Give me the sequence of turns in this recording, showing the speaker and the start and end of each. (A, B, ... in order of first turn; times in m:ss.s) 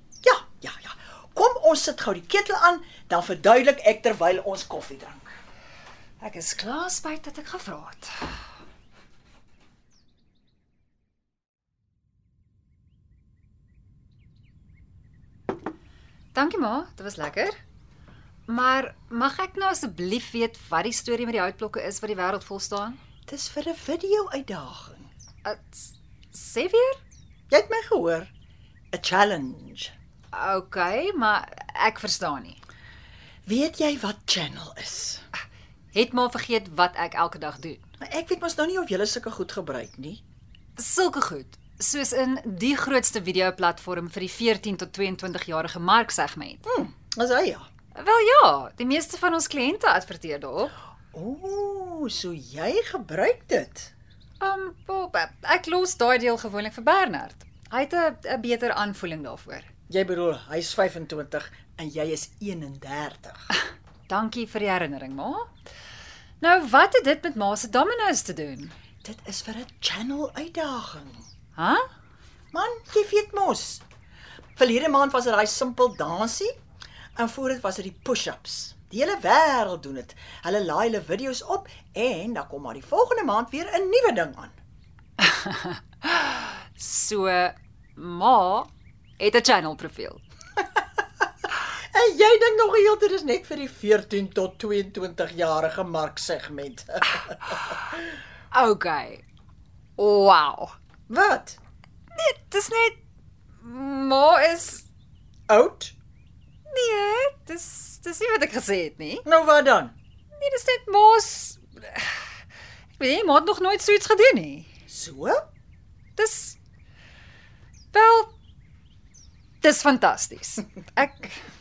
0:00.2-0:05.4 A
0:06.2-0:08.1 B
0:16.3-0:17.6 B
0:18.5-0:23.0 B
0:23.3-0:25.1 A
0:25.4-0:27.0 B
0:27.5-0:28.3 A
0:28.9-0:29.9 A
0:30.3-0:32.6 B
0:33.5-0:35.2 A
0:35.9-0:37.8 B
0:38.0-0:40.2 A
0:40.8-0:46.7 B
0:46.7-0:47.7 A
0:48.0-0:50.7 B
0:51.1-0:53.9 A
0:54.4-0:59.7 B
0:59.9-1:03.4 A
1:04.1-1:05.5 B
1:06.4-1:08.8 B
1:09.0-1:11.3 A
1:11.6-1:11.9 B
1:12.5-1:13.8 A
1:14.6-1:16.6 A
1:17.2-1:24.6 A
1:25.2-1:30.2 B
1:31.8-1:38.0 A
1:38.5-1:39.2 B
1:40.0-1:40.8 B
1:41.1-1:41.6 A
1:42.2-1:43.0 B
1:43.6-1:44.8 B
1:45.5-1:46.0 A
1:46.7-1:49.2 B
1:49.2-1:50.0 A
1:50.4-1:52.2 B
1:53.0-1:54.7 B
1:54.9-1:55.4 A
1:56.2-1:56.6 B
1:57.9-1:58.3 B
1:59.6-2:01.4 B